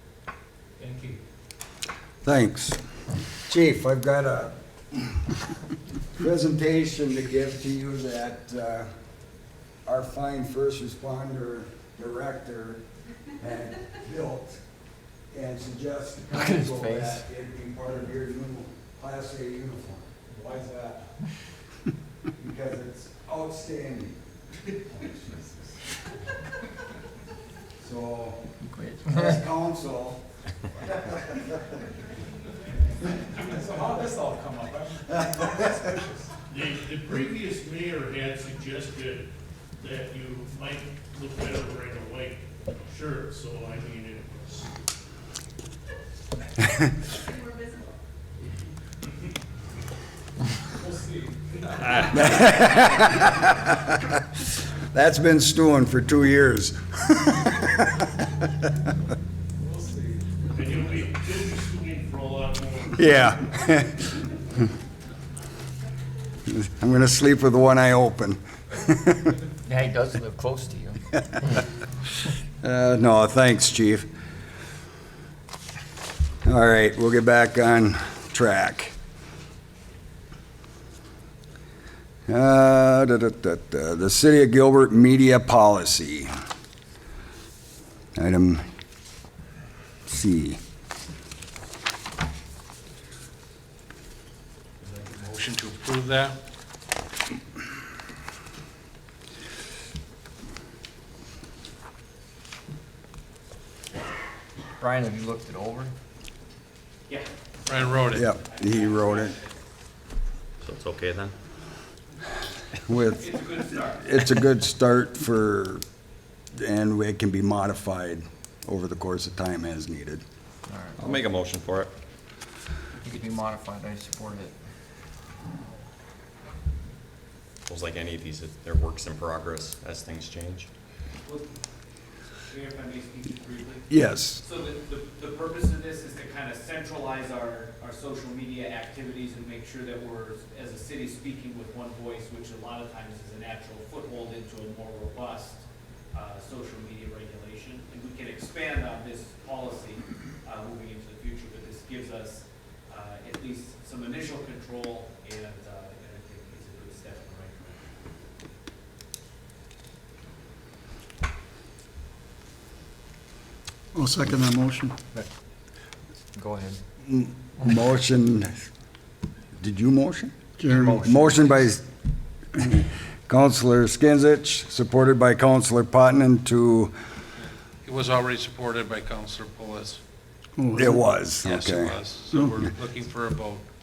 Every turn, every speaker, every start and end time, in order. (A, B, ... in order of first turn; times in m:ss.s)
0:00.8-0:01.2 A
0:02.2-0:02.8 B
0:03.5-0:05.2 B
0:06.2-0:08.9 B
0:09.8-0:12.8 B
0:13.4-0:14.6 B
0:15.3-0:20.1 B
0:16.3-0:17.2 C
0:20.3-0:21.1 A
0:22.4-0:24.2 B
0:27.8-0:28.5 B
0:28.6-0:29.4 C
0:29.1-0:30.2 B
0:30.9-0:31.4 B
0:33.4-0:36.3 A
0:36.5-0:39.3 D
0:39.8-0:44.7 D
0:50.8-0:51.5 A
0:52.1-0:54.4 B
0:54.9-0:58.0 B
0:59.6-1:00.2 A
1:00.5-1:03.4 D
1:03.0-1:04.0 B
1:06.5-1:09.4 B
1:09.6-1:11.0 C
1:12.6-1:14.1 B
1:16.4-1:18.9 B
1:22.3-1:26.3 B
1:28.2-1:28.6 B
1:30.0-1:30.6 B
1:35.0-1:36.4 E
1:44.8-1:45.9 C
1:47.1-1:49.6 F
1:47.7-1:48.2 E
1:48.1-1:49.3 B
1:50.6-1:51.3 G
1:52.9-1:53.3 B
1:53.2-1:54.3 F
1:53.9-1:55.8 B
1:56.5-2:00.2 B
2:00.7-2:01.2 C
2:01.0-2:01.9 G
2:03.0-2:04.5 C
2:07.7-2:10.7 G
2:12.5-2:13.9 F
2:13.9-2:14.4 B
2:14.4-2:25.6 F
2:26.1-2:37.8 F
2:43.9-2:45.0 H
2:46.3-2:46.8 C
2:47.0-2:48.5 B
2:49.6-2:50.3 B
2:50.6-2:51.1 H
2:50.7-2:51.6 C
2:51.0-2:51.8 B
2:52.6-2:56.9 B
2:57.8-3:00.0 E
3:00.6-3:01.3 H
3:00.8-3:02.0 B
3:01.4-3:03.6 E
3:02.3-3:02.6 H